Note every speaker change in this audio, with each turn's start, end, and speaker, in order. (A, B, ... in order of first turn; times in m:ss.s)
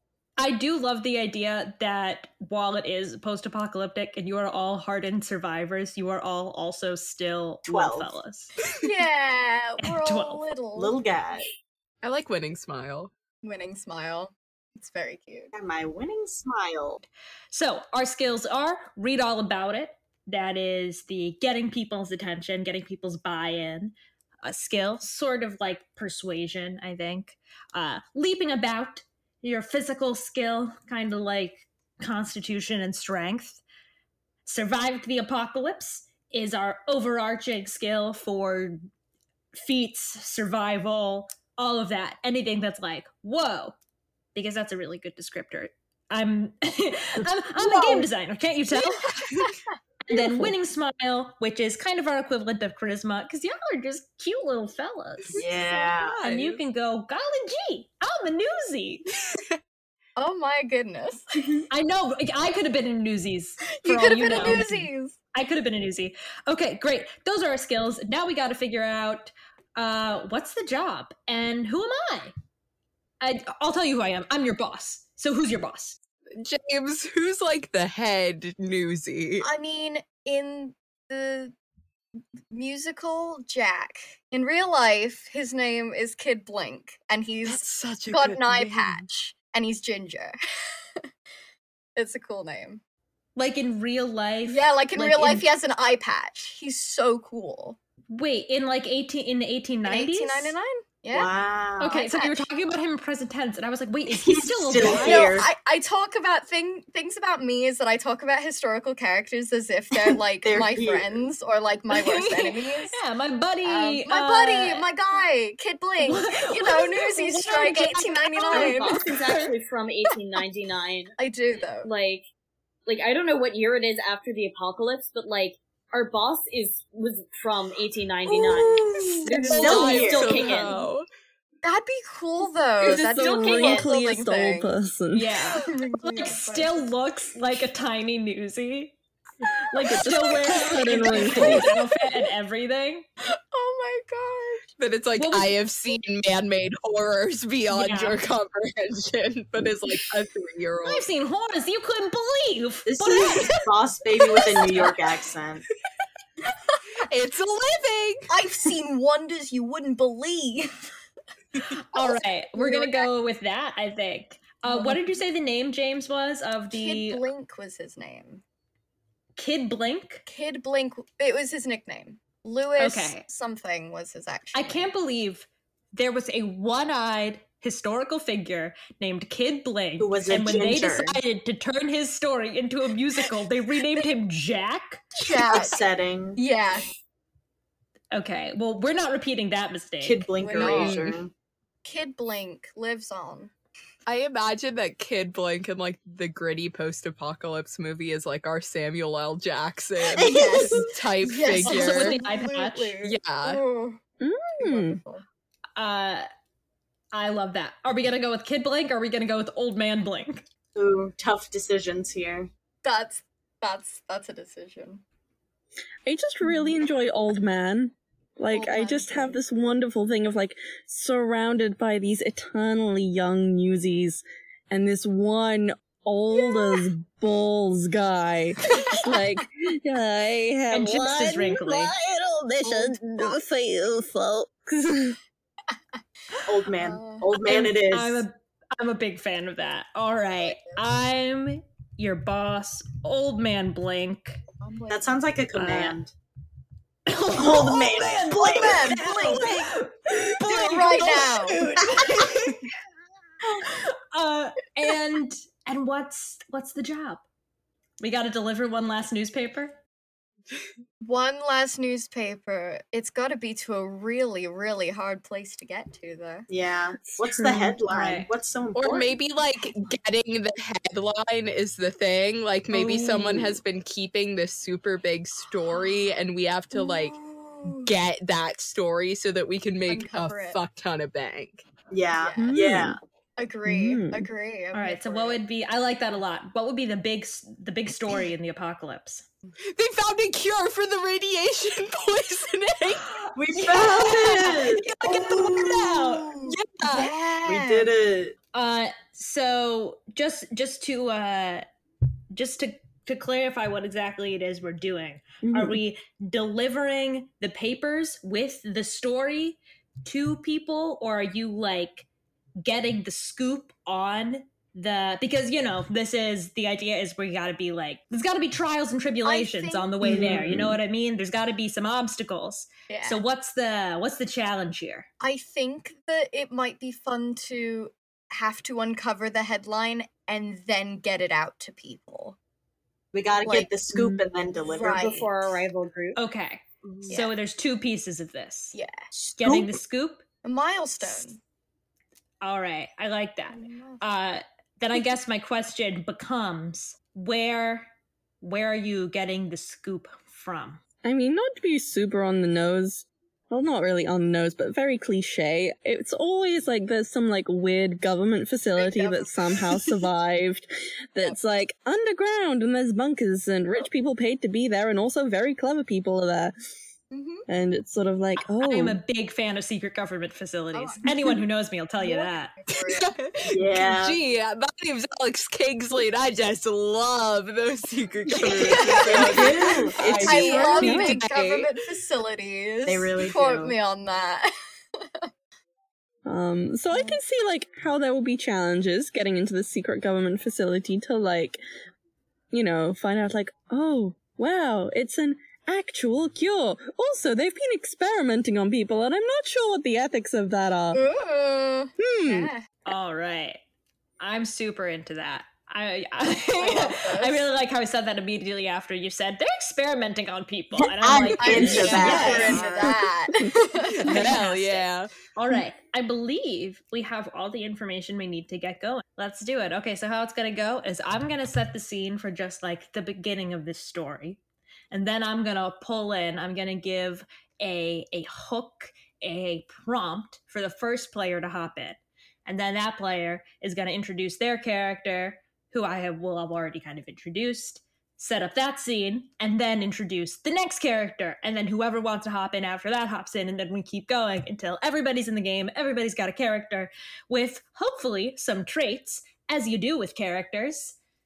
0:00.4-0:08.5 A
0:07.7-0:08.1 B
0:08.8-0:11.0 C
0:09.8-0:10.4 A
0:10.8-0:11.4 B
0:12.0-0:13.1 D
0:13.4-0:15.5 C
0:15.5-0:17.0 B
0:17.5-0:33.6 A
0:34.4-0:38.8 A
0:39.6-0:43.7 A
0:44.3-0:49.1 A
0:47.6-0:48.0 B
0:49.1-0:49.5 C
0:50.1-0:55.4 A
0:55.4-0:56.2 B
0:55.4-0:56.0 C
0:56.0-0:59.0 A
0:56.2-0:56.6 D
1:00.2-1:01.6 C
1:01.7-1:04.8 A
1:03.8-1:05.2 C
1:05.3-1:12.3 A
1:13.2-1:16.0 A
1:16.4-1:19.5 D
1:19.4-1:21.5 C
1:22.5-1:30.3 C
1:27.4-1:29.0 D
1:32.0-1:32.8 C
1:33.4-1:35.4 A
1:34.4-1:37.8 C
1:38.1-1:40.6 A
1:39.8-1:42.4 C
1:41.1-1:41.9 B
1:41.8-1:45.3 A
1:44.1-1:45.5 B
1:44.9-1:53.0 C
1:50.1-1:51.3 B
1:51.9-1:54.9 A
1:53.6-1:59.1 C
1:56.0-1:59.5 A
1:58.5-2:01.1 E
2:01.2-2:01.9 C
2:01.8-2:02.2 E
2:02.8-2:10.8 E
2:08.2-2:10.8 C
2:09.3-2:10.4 B
2:09.5-2:11.0 D
2:10.2-2:10.4 A
2:11.6-2:14.7 C
2:12.8-2:15.5 F
2:12.8-2:13.9 E
2:15.1-2:18.9 A
2:15.5-2:16.8 C
2:19.7-2:23.0 A
2:19.8-2:21.7 F
2:20.9-2:22.0 C
2:23.3-2:24.7 C
2:24.8-2:31.1 D
2:25.2-2:25.6 A
2:27.7-2:28.2 A
2:30.8-2:33.6 A
2:32.8-2:35.6 B
2:34.6-2:34.9 A
2:37.0-2:38.3 D
2:38.3-2:40.9 C
2:41.8-2:47.2 A
2:41.9-2:43.1 C
2:44.7-2:45.0 C
2:46.7-2:48.4 C
2:49.4-2:50.2 A
2:50.3-2:54.9 C
2:52.8-2:53.2 A
2:54.5-3:05.0 A
3:00.0-3:01.2 B
3:05.2-3:05.8 C
3:05.3-3:06.4 B
3:06.4-3:06.9 C
3:08.1-3:10.3 A
3:10.0-3:11.3 B
3:10.4-3:11.1 C
3:10.6-3:11.2 D
3:11.8-3:13.5 C
3:14.0-3:22.2 D
3:20.1-3:20.9 B
3:20.2-3:24.0 C
3:21.6-3:22.9 A
3:23.0-3:23.6 D
3:24.2-3:25.0 F
3:24.6-3:25.2 C
3:25.8-3:26.3 A
3:27.1-3:30.4 A
3:30.7-3:32.5 B
3:32.8-3:35.0 C
3:36.0-3:55.2 F
3:38.5-3:39.4 C
3:46.4-3:46.8 C
3:48.7-3:49.2 C
3:50.7-3:51.9 A
3:52.7-3:53.3 C
3:56.4-3:57.3 C
3:56.5-3:58.2 B
3:57.4-4:04.4 A
4:00.4-4:00.8 C
4:04.6-4:05.2 C
4:04.9-4:06.1 B
4:05.5-4:06.0 A
4:07.1-4:12.6 A
4:07.4-4:09.1 B
4:08.3-4:09.5 C
4:09.2-4:09.6 F
4:10.4-4:11.7 C
4:11.8-4:12.2 B
4:13.6-4:17.2 A
4:18.0-4:19.8 A
4:21.0-4:26.5 C
4:26.5-4:29.1 B
4:27.0-4:27.8 F
4:27.9-4:28.3 A
4:28.7-4:41.6 D
4:32.7-4:33.6 F
4:36.7-4:37.9 C
4:39.9-4:40.6 C
4:41.9-4:43.0 B
4:42.1-4:42.5 C
4:42.4-4:43.0 F
4:43.4-4:45.4 C
4:43.7-4:44.3 F
4:44.7-4:49.2 A
4:49.7-4:53.1 D
4:53.3-4:56.5 B
4:53.5-4:56.3 A
4:56.5-4:57.1 D
4:56.8-4:57.9 C
4:57.4-4:58.3 B
4:58.5-5:01.7 A
5:02.3-5:12.0 A
5:05.4-5:05.8 F
5:12.6-5:25.1 A
5:19.2-5:20.0 C
5:20.0-5:20.8 F
5:20.0-5:20.4 B
5:22.9-5:23.2 C
5:25.2-5:32.4 C
5:33.1-5:35.1 B
5:33.9-5:34.2 F
5:34.6-5:35.3 C
5:34.9-5:36.2 E
5:36.2-5:38.8 A
5:37.1-5:37.3 C
5:38.7-5:39.1 C
5:39.2-5:39.8 B
5:39.3-5:40.2 A
5:40.4-5:41.4 C
5:42.4-5:47.9 A
5:43.5-5:44.0 C
5:48.4-5:50.8 A
5:51.0-6:06.5 F
5:58.8-6:00.0 C
6:07.1-6:07.4 C
6:07.5-6:09.0 F
6:08.4-6:12.5 A
6:10.7-6:11.0 C
6:12.0-6:13.1 C
6:12.7-6:21.7 D
6:13.5-6:14.2 B
6:18.3-6:25.3 C
6:18.8-6:20.9 B
6:20.0-6:21.2 F
6:22.8-6:23.7 B
6:26.2-6:31.6 F
6:32.5-6:41.0 F
6:40.9-6:42.7 C
6:42.0-6:42.5 F
6:42.8-6:43.6 A
6:44.2-6:52.6 A
6:46.6-6:47.4 C
6:50.7-6:52.7 B
6:51.4-6:54.9 C
6:51.8-6:54.3 F
6:53.9-6:55.1 D
6:55.3-7:04.4 A
7:04.9-7:31.0 A